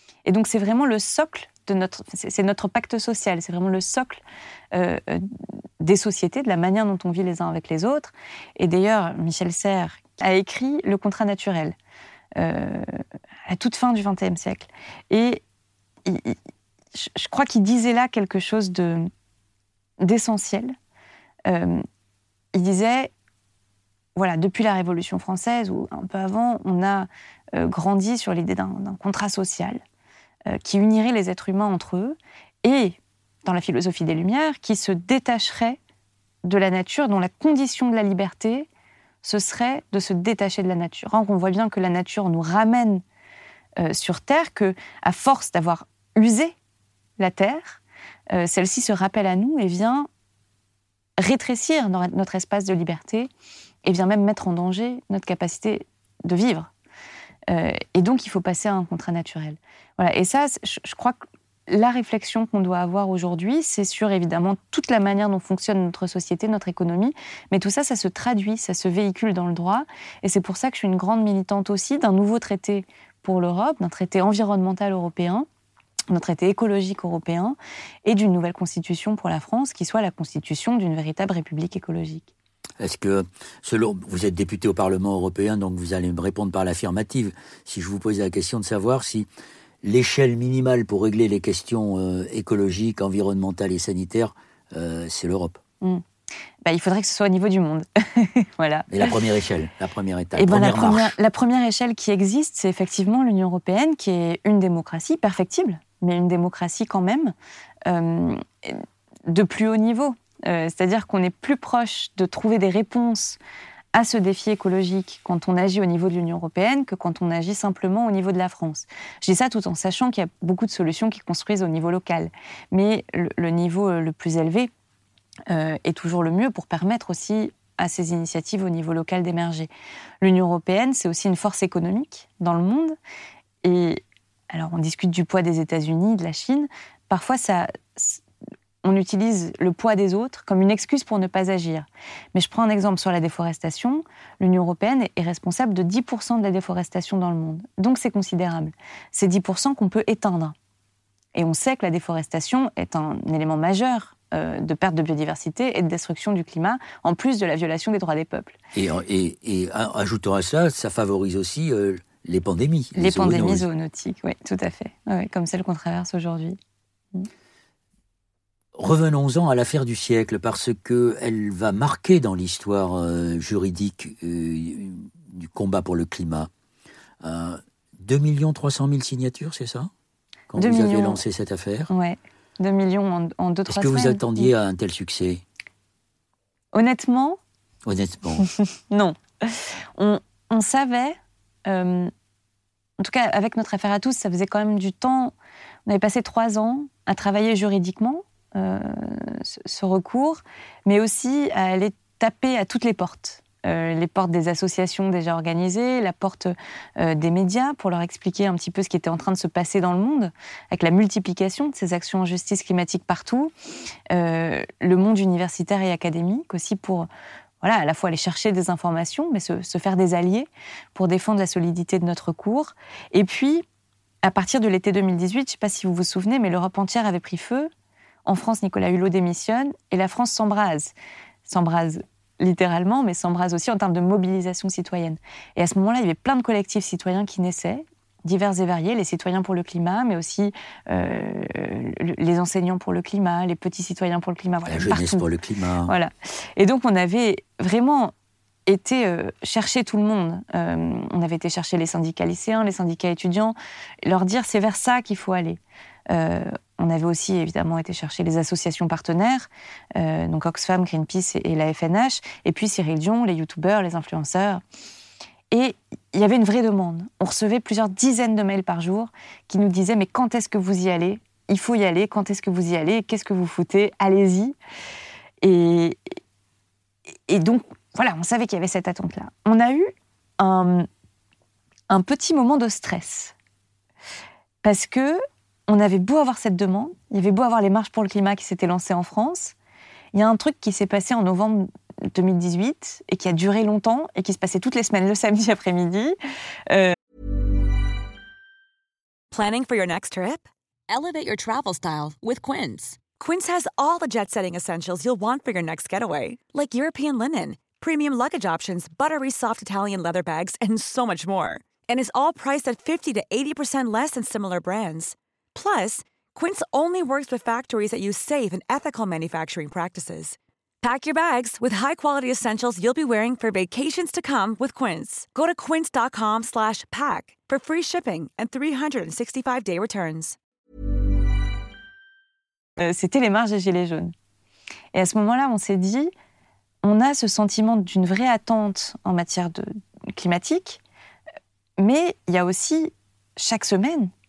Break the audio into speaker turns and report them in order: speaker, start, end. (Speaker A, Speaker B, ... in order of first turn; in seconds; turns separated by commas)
Speaker A: 0.2-11.7, Speaker A: 12.4-15.4, Speaker A: 16.0-16.4, Speaker A: 16.9-19.1, Speaker A: 20.0-20.7, Speaker A: 21.5-21.8, Speaker A: 22.5-23.1, Speaker A: 24.1-29.8, Speaker A: 30.5-35.8, Speaker A: 36.4-38.7, Speaker A: 39.2-43.0, Speaker A: 43.8-46.5, Speaker A: 47.2-47.8, Speaker A: 48.3-50.1, Speaker A: 51.2-53.3, Speaker A: 53.8-56.7, Speaker A: 57.5-75.5, Speaker A: 76.1-82.3, Speaker B: 82.8-89.3, Speaker B: 89.8-95.6, Speaker A: 96.6-99.2, Speaker B: 98.9-101.2, Speaker A: 100.3-107.3, Speaker A: 107.8-113.4, Speaker A: 113.9-124.7, Speaker A: 125.5-129.7, Speaker A: 130.2-132.9, Speaker A: 133.6-138.2, Speaker A: 138.8-150.5, Speaker A: 151.3-158.6, Speaker B: 158.7-163.7, Speaker A: 162.9-166.6, Speaker B: 168.8-176.5, Speaker B: 177.2-179.9, Speaker B: 180.5-181.9, Speaker A: 180.6-181.2, Speaker A: 181.9-184.5, Speaker B: 183.7-185.4, Speaker A: 186.7-187.4, Speaker B: 187.8-188.5, Speaker A: 188.4-192.1, Speaker A: 193.0-195.3, Speaker A: 195.8-213.5, Speaker A: 214.1-217.1, Speaker A: 217.6-223.6, Speaker A: 224.2-227.7, Speaker A: 228.2-230.9, Speaker A: 231.4-245.2, Speaker B: 244.7-245.9, Speaker A: 245.8-248.1, Speaker A: 248.7-264.6, Speaker A: 265.5-274.5, Speaker A: 275.4-276.1, Speaker A: 277.3-280.9, Speaker A: 281.9-283.3, Speaker A: 284.6-289.5, Speaker A: 290.1-296.1, Speaker A: 296.7-296.9, Speaker C: 299.3-330.4, Speaker A: 332.8-334.1, Speaker A: 334.9-336.1, Speaker A: 336.8-340.8, Speaker A: 341.8-344.1